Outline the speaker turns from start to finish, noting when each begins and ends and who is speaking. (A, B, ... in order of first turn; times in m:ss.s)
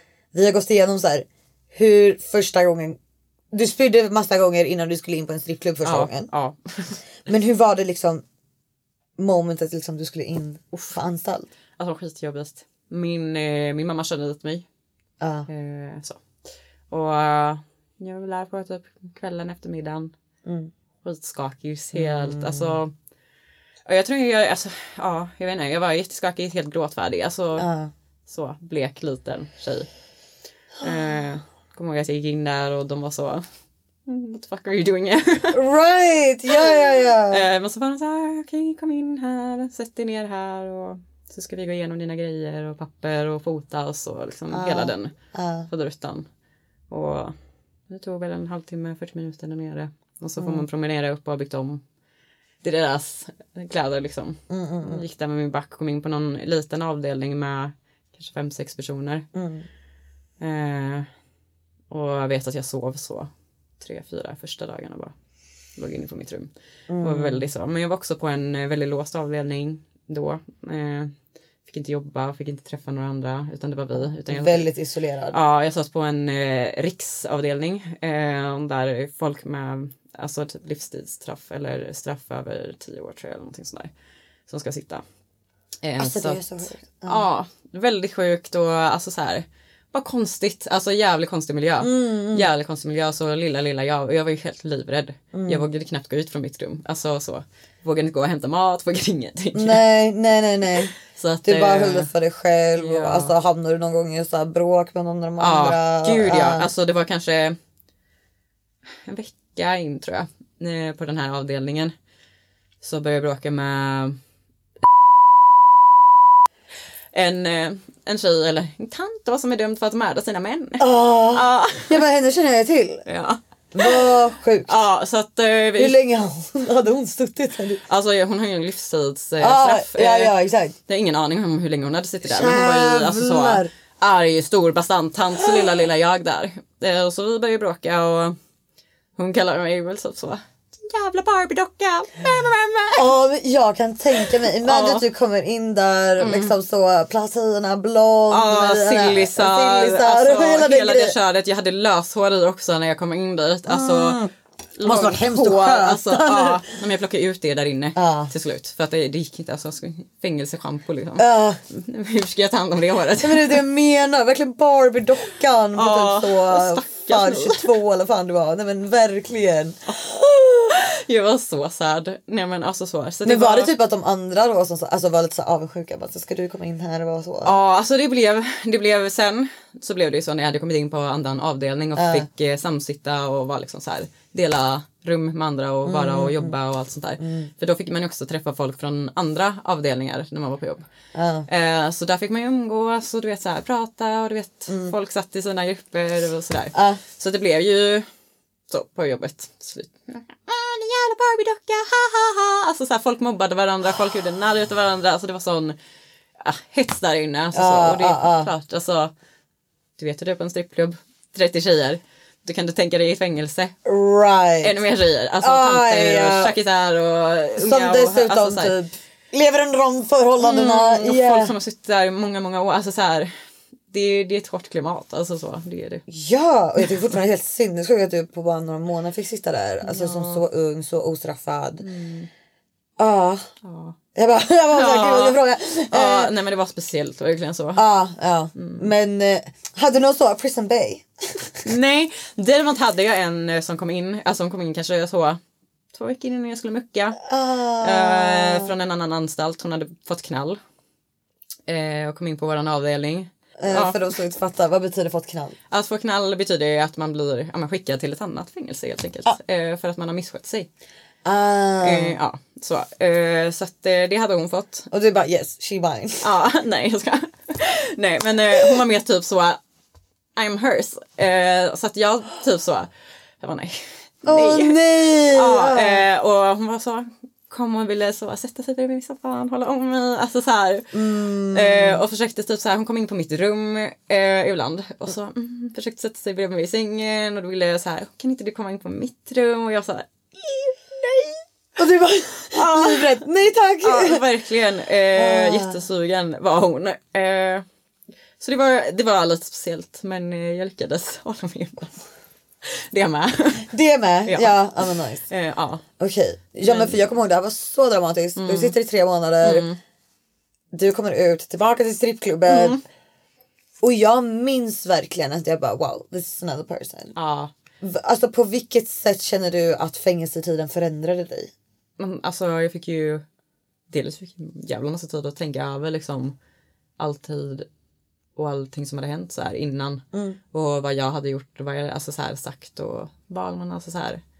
0:00.3-0:03.0 A
0:03.5-0:06.3 A
0:05.8-0:07.0 B
0:07.2-0:08.2 A
0:09.2-0:11.5 A
0:10.7-0:11.0 B
0:11.8-0:14.6 B
0:15.2-0:15.5 A
0:15.5-0:16.2 B
0:16.9-0:20.1 B
0:20.4-0:20.7 A
0:21.0-0:22.9 B
0:21.9-0:22.8 A
0:23.8-0:27.6 B
0:27.6-0:27.9 A
0:28.3-0:29.9 B
0:30.8-0:33.4 B
0:34.0-0:35.6 B
0:35.5-0:37.4 A
0:37.3-0:45.1 B
0:44.5-0:45.7 A
0:45.7-0:46.2 B
0:46.9-0:47.3 B
0:47.9-0:51.8 B
0:50.4-0:50.6 A
0:52.6-0:59.2 B
0:54.5-0:55.0 A
0:59.3-0:59.6 A
1:00.4-1:01.1 B
1:01.9-1:05.1 B
1:05.8-1:11.1 B
1:06.9-1:07.5 A
1:11.6-1:14.7 B
1:14.3-1:15.4 A
1:15.3-1:23.9 B
1:24.5-1:25.0 B
1:25.8-1:39.8 B
1:26.0-1:27.2 A
1:31.8-1:32.5 A
1:35.3-1:35.6 A
1:39.5-1:40.9 A
1:41.0-1:42.1 B
1:41.4-1:46.7 A
1:42.8-1:43.3 B
1:45.4-1:47.6 B
1:49.0-1:51.9 B
1:52.8-1:54.2 B
1:57.1-2:02.0 B
2:00.8-2:03.0 A
2:03.0-2:04.0 B
2:03.7-2:04.7 A
2:04.7-2:06.0 B
2:05.8-2:07.8 A
2:07.8-2:10.3 B
2:09.4-2:10.7 A
2:10.8-2:18.4 B
2:12.2-2:13.7 A
2:19.2-2:23.1 B
2:22.9-2:31.2 A
2:24.2-2:25.0 B
2:26.2-2:26.5 B
2:28.3-2:34.2 B
2:33.7-2:34.3 A
2:34.8-2:43.6 B
2:34.8-2:36.6 A
2:38.0-2:38.3 A
2:41.2-2:41.6 A
2:43.2-2:49.8 A
2:45.7-2:47.7 B
2:49.9-2:53.7 B
2:53.2-2:57.5 A
2:57.4-3:10.8 B
3:02.0-3:02.3 A
3:05.8-3:06.5 A
3:07.2-3:07.5 A
3:11.1-3:11.5 A
3:11.5-3:18.1 B
3:14.7-3:14.9 A
3:16.7-3:17.0 A
3:18.7-3:25.8 B
3:26.4-3:29.1 B
3:27.5-3:28.5 A
3:30.0-3:33.7 B
3:33.8-3:34.8 A
3:34.6-3:38.8 B
3:35.4-3:36.5 A
3:37.6-3:41.5 A
3:40.4-3:43.3 B
3:43.9-3:46.0 B
3:46.1-3:51.8 A
3:49.8-3:50.4 B
3:51.8-3:52.3 B
3:53.0-3:53.5 A
3:53.6-3:54.0 B
3:54.1-3:56.3 A
3:54.7-3:57.9 B
3:57.8-4:01.6 A
3:58.5-3:58.9 B
4:01.6-4:05.4 B
4:05.9-4:07.2 B
4:07.2-4:08.7 A
4:07.8-4:10.6 B
4:11.7-4:14.0 B
4:13.6-4:15.5 A
4:15.7-4:20.7 B
4:21.2-4:22.2 A
4:21.8-4:24.9 B
4:24.9-4:26.2 A
4:26.2-4:29.6 B
4:30.4-4:32.9 B
4:33.4-4:40.9 B
4:34.2-4:36.0 A
4:40.9-4:42.0 A
4:41.5-4:51.4 B
4:51.8-4:54.2 A
4:52.5-4:53.2 B
4:53.8-4:57.6 B
4:55.1-4:55.8 A
4:58.4-5:02.0 B
5:02.7-5:03.7 B
5:03.7-5:05.2 A
5:04.2-5:04.6 B
5:05.3-5:05.8 B
5:06.0-5:09.7 A
5:06.6-5:07.0 B
5:08.4-5:08.8 B
5:09.4-5:09.8 B
5:10.7-5:12.8 A
5:12.5-5:12.8 B
5:13.8-5:17.1 A
5:17.1-5:17.5 B
5:17.8-5:21.5 A
5:22.0-5:23.2 B
5:23.9-5:26.3 B
5:27.0-5:27.7 B
5:28.4-5:34.2 B
5:30.1-5:30.4 A